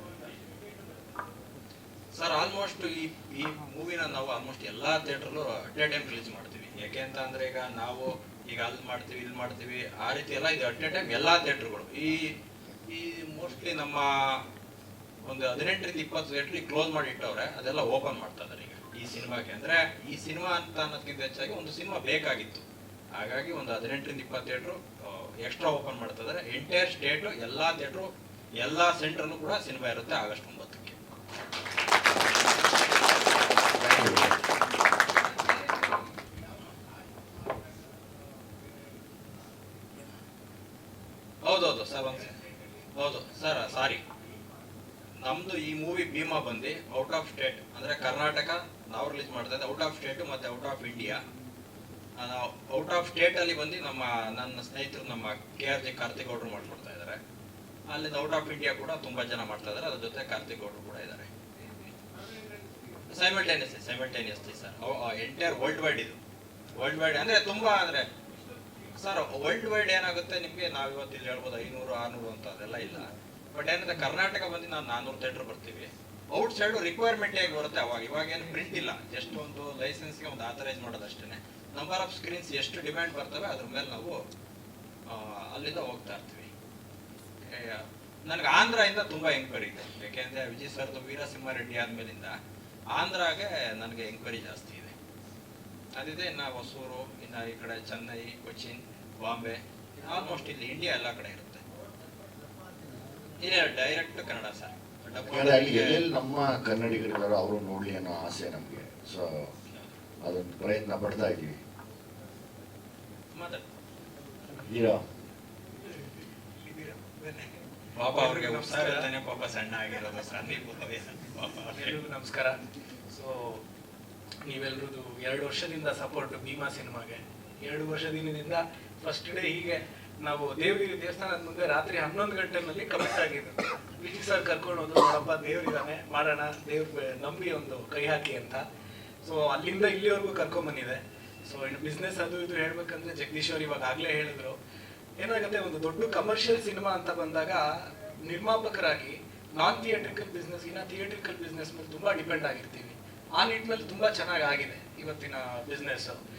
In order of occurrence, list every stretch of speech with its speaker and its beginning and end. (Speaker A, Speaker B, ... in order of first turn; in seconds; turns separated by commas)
Speaker A: 2.1-12.3, Speaker A: 12.9-14.4, Speaker A: 15.2-31.0, Speaker B: 33.8-34.4, Speaker A: 41.4-42.4, Speaker A: 42.9-44.0, Speaker A: 45.2-51.2, Speaker A: 52.2-57.2, Speaker A: 57.9-61.3, Speaker A: 63.1-66.2, Speaker A: 66.8-68.1, Speaker A: 68.9-84.2, Speaker A: 85.0-86.5, Speaker A: 87.5-92.3, Speaker A: 92.9-94.9, Speaker A: 96.0-101.6, Speaker A: 103.4-106.0, Speaker B: 105.3-109.5, Speaker B: 110.2-111.6, Speaker A: 113.3-113.6, Speaker B: 114.6-115.0, Speaker C: 116.6-119.1, Speaker A: 118.0-122.0, Speaker C: 121.7-122.6, Speaker C: 123.1-123.6, Speaker C: 124.4-138.6, Speaker C: 139.2-144.6, Speaker C: 145.2-156.2